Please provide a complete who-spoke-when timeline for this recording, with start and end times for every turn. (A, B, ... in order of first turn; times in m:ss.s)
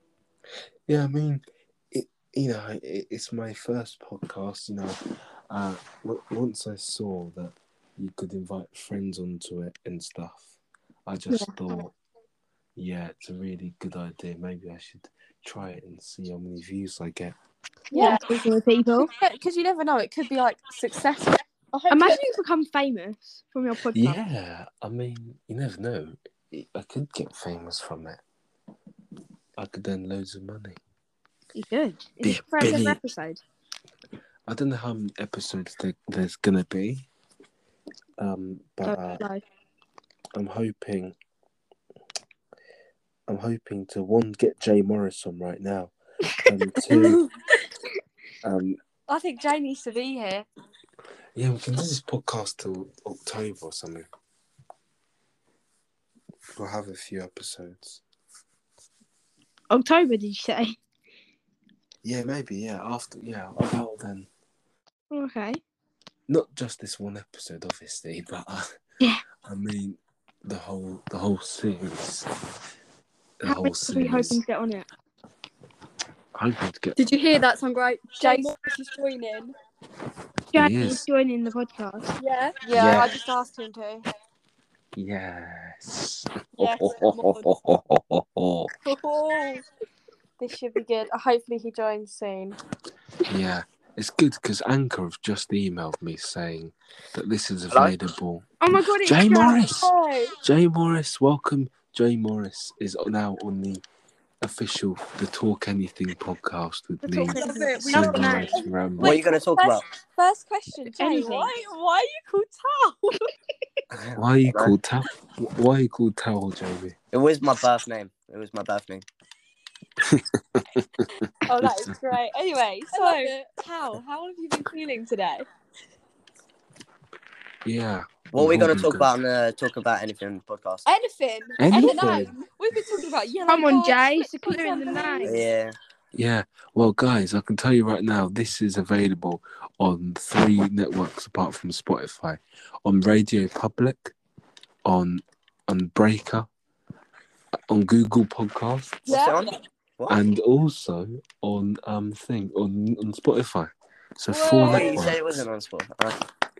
0:00.9-0:10.6 A
0:11.1-0:11.9 A
0:12.8-0:17.4 A
0:17.9-0:18.2 B
0:17.9-0:19.1 C
0:18.0-0:18.2 D
0:19.0-0:21.4 D
0:21.7-0:22.2 B
0:21.9-0:24.2 C
0:23.9-0:28.2 A
0:29.6-0:30.8 A
0:31.6-0:33.4 C
0:32.2-0:33.0 A
0:34.5-0:37.1 A
0:38.2-0:39.2 A
0:38.8-0:39.4 C
0:40.3-0:41.2 A
0:43.3-0:47.2 A
0:48.4-0:48.8 A
0:49.1-0:50.5 D
0:51.4-0:54.1 A
0:56.6-0:58.0 A
0:59.7-1:00.8 C
1:02.0-1:04.3 A
1:05.1-1:05.6 C
1:06.3-1:08.7 A
1:09.4-1:12.3 A
1:13.4-1:14.4 A
1:13.5-1:14.9 C
1:16.4-1:17.0 A
1:17.0-1:19.5 B
1:18.2-1:18.5 D
1:20.5-1:22.2 C
1:20.6-1:21.0 A
1:22.2-1:22.6 B
1:22.6-1:24.0 D
1:22.7-1:23.2 A
1:24.9-1:28.7 A
1:26.6-1:27.5 B
1:28.8-1:29.7 B
1:30.4-1:32.6 D
1:33.3-1:43.8 A
1:38.6-1:39.6 C
1:39.8-1:40.3 B
1:44.4-1:49.2 A
1:47.0-1:48.6 C
1:47.3-1:48.7 B
1:49.0-1:53.2 D
1:49.0-1:49.8 E
1:51.0-1:51.5 C
1:53.9-1:54.7 E
1:54.2-1:57.0 A
1:57.1-1:59.0 E
2:00.0-2:02.0 A
2:01.5-2:05.5 D
2:02.9-2:03.5 B
2:07.6-2:09.1 A
2:08.3-2:10.9 E
2:10.9-2:13.1 B
2:11.6-2:12.3 A
2:11.7-2:15.4 D
2:13.5-2:15.4 C
2:15.2-2:15.8 E
2:16.1-2:24.2 A
2:24.8-2:26.5 A
2:27.7-2:29.1 A
2:29.1-2:30.2 E
2:29.1-2:29.4 B
2:30.1-2:35.4 A
2:34.3-2:35.0 D
2:34.6-2:36.2 E